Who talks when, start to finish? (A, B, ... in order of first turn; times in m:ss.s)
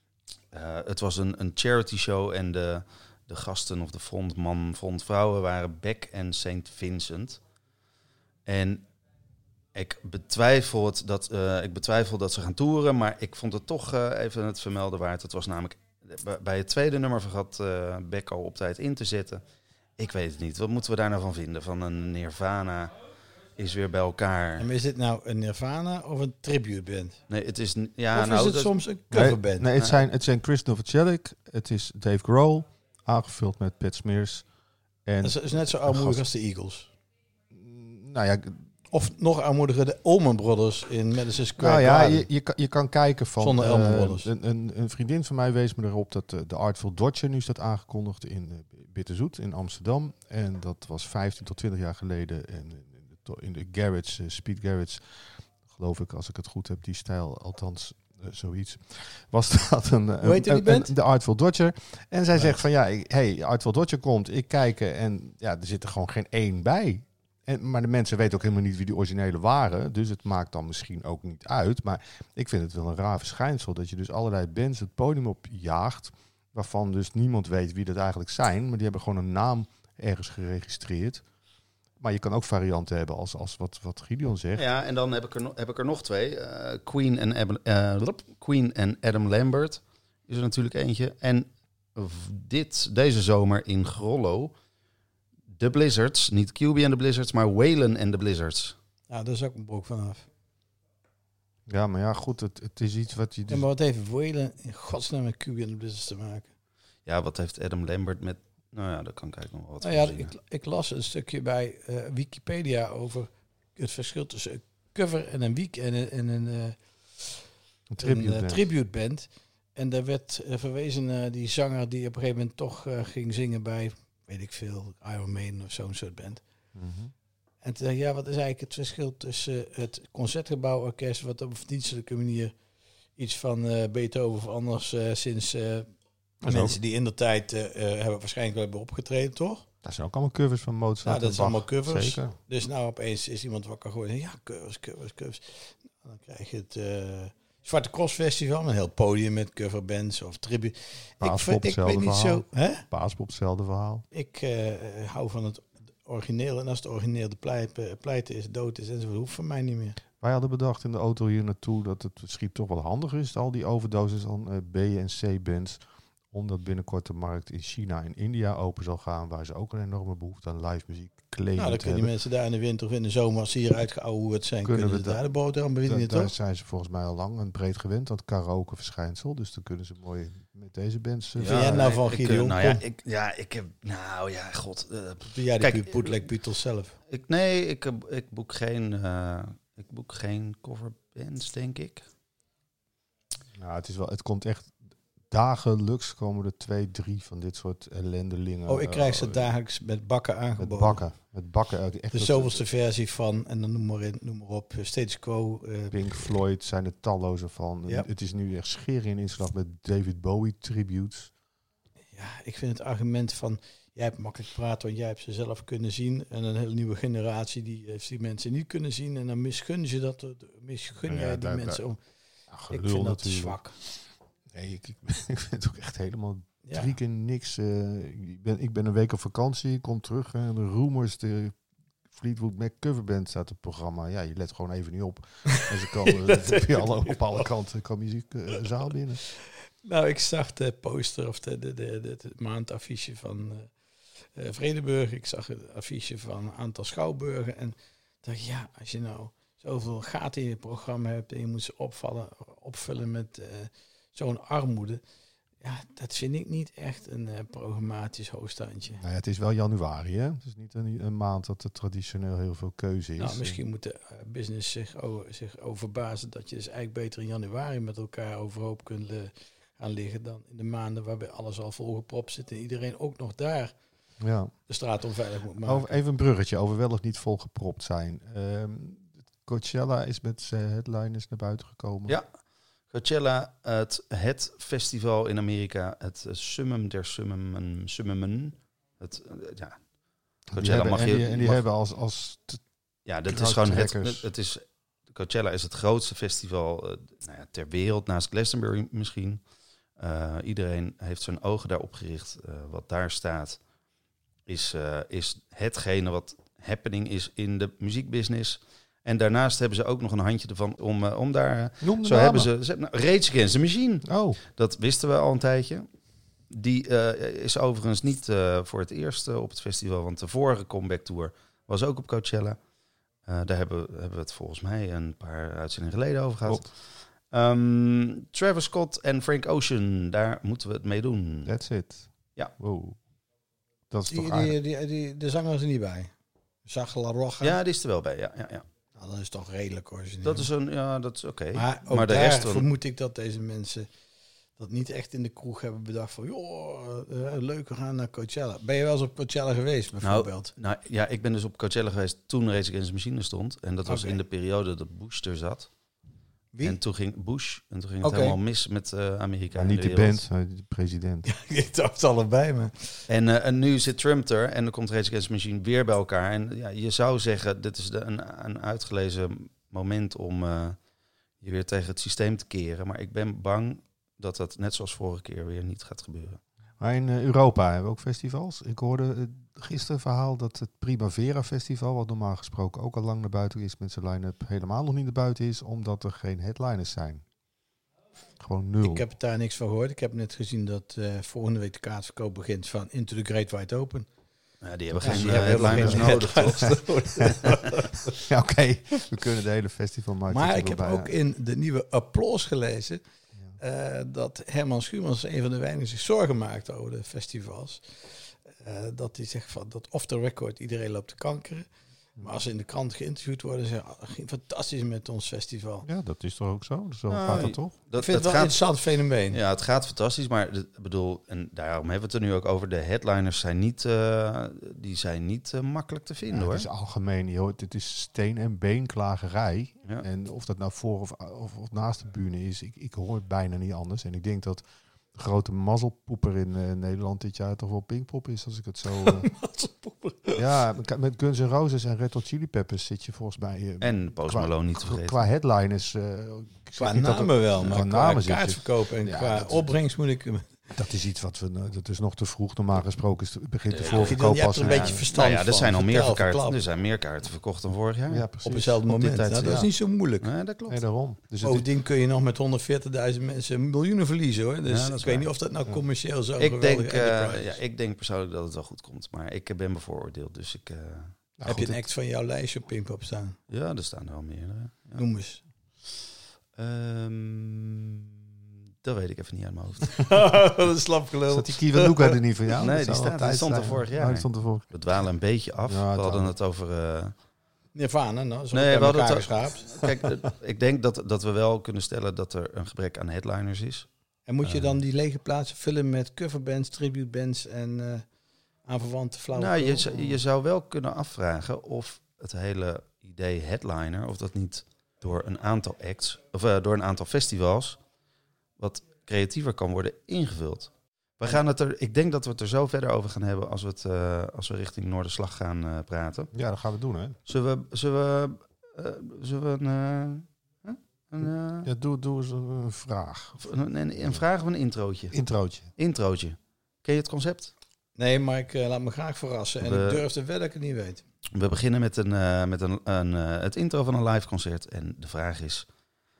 0:00.5-0:07.4 A
0:08.4-0:08.8 A
0:09.7-0:19.4 A
0:20.0-0:22.9 A
0:23.6-0:24.6 A
0:24.6-0:27.2 B
0:27.3-0:30.0 A
0:28.1-0:29.7 B
0:29.1-0:34.4 C
0:35.0-0:36.2 C
0:35.2-0:36.9 B
0:37.5-0:38.6 C
0:38.9-0:42.2 B
0:41.6-1:21.2 C
0:43.4-0:44.3 B
1:00.2-1:00.9 B
1:22.0-1:24.6 C
1:24.5-1:34.5 A
1:35.5-1:38.8 A
1:39.1-1:40.2 B
1:41.7-1:43.6 C
1:43.5-1:46.5 B
1:47.0-1:50.3 A
1:49.8-1:57.4 B
1:57.9-1:58.6 C
1:58.0-2:06.4 B
2:06.7-2:07.1 C
2:07.6-2:12.5 B
2:13.2-2:15.9 B
2:16.4-2:19.6 B
2:16.4-2:16.8 C
2:19.8-2:22.4 C
2:21.0-2:32.8 B
2:31.2-2:34.0 C
2:34.1-2:40.0 B
2:40.2-2:45.8 C
2:46.3-2:52.1 C
2:51.6-2:56.3 B
2:54.6-2:55.2 C
2:55.8-3:01.9 C
3:01.4-3:06.2 A
3:01.4-3:02.8 B
3:05.3-3:06.9 B
3:07.1-3:12.0 A
3:13.5-3:14.7 C
3:15.3-3:19.5 C
3:18.7-3:21.0 B
3:20.6-3:22.6 C
3:22.1-3:26.3 B
3:25.9-3:31.3 C
3:32.1-3:42.0 B
3:41.0-3:41.8 C
3:42.5-3:43.6 C
3:42.7-3:43.7 B
3:44.5-3:51.6 C
3:46.6-3:46.9 B
3:52.1-3:59.2 C
3:55.5-3:57.4 B
3:59.8-4:03.7 B
4:04.3-4:15.0 B
4:15.6-4:19.0 B
4:19.0-4:23.6 C
4:23.2-4:33.7 B
4:34.2-4:34.5 C
4:34.7-4:36.0 B
4:35.6-4:42.2 C
4:42.9-4:49.8 A
4:50.5-4:52.6 C
4:50.5-4:51.6 A
4:53.0-4:59.4 A
4:53.3-4:54.3 C
5:00.0-5:03.6 A
5:04.5-5:15.9 A
5:11.8-5:12.5 C
5:14.0-5:14.4 C
5:16.5-5:22.6 A
5:23.2-5:26.7 A
5:27.3-5:31.5 A
5:31.4-5:33.0 C
5:33.9-5:34.6 C
5:34.1-5:36.1 B
5:36.6-5:37.6 B
5:37.4-5:38.6 A
5:39.0-5:40.5 B
5:40.2-5:42.7 A
5:41.5-5:43.9 B
5:44.6-5:50.5 B
5:50.0-5:55.7 A
5:53.8-5:54.2 B
5:56.5-5:56.8 B
5:56.6-6:00.2 A
5:58.0-5:58.4 B
5:59.5-6:01.3 C
6:01.2-6:03.0 B
6:03.1-6:10.8 A
6:11.4-6:16.4 A
6:16.8-6:27.2 C
6:28.4-6:29.0 C
6:28.8-6:34.1 B
6:34.6-6:36.8 A
6:34.9-6:37.5 C
6:35.0-6:38.2 B
6:38.1-6:41.1 C
6:40.3-6:43.0 B
6:43.6-6:51.7 B
6:52.2-6:55.8 B
6:55.8-6:57.7 C
6:57.1-6:58.6 A
6:58.0-6:59.4 B
6:59.3-7:06.6 A
7:06.3-7:14.6 C
7:15.1-7:19.3 C
7:19.0-7:20.4 B
7:20.4-7:29.7 C
7:23.8-7:25.2 A
7:26.8-7:30.5 B
7:30.7-7:35.0 C
7:33.7-7:38.3 A
7:34.0-7:36.6 B
7:38.1-7:38.8 C
7:38.4-7:40.2 B
7:38.8-7:39.7 A
7:40.2-7:40.8 A
7:40.7-7:41.6 C
7:41.4-7:47.6 B
7:44.7-7:45.3 A
7:46.4-7:51.1 A
7:51.4-7:51.8 C
7:51.4-7:53.4 B
7:53.5-7:55.0 A
7:54.9-7:55.4 B
7:56.6-7:58.3 A
7:58.8-8:00.0 A
7:59.9-8:02.2 B
8:01.3-8:04.7 C
8:02.6-8:07.1 A
8:05.6-8:06.3 C
8:07.7-8:09.9 B
8:08.5-8:13.9 A
8:14.3-8:18.0 B
8:14.4-8:14.7 A
8:18.6-8:20.1 B
8:19.3-8:27.8 A
8:28.6-8:36.3 A
8:36.3-8:37.2 C
8:37.3-8:41.7 A
8:41.6-8:44.2 C
8:43.4-8:45.2 A
8:45.1-8:45.7 C
8:45.8-8:47.5 A
8:48.0-8:51.0 B
8:49.6-8:50.0 A
8:51.3-8:55.7 A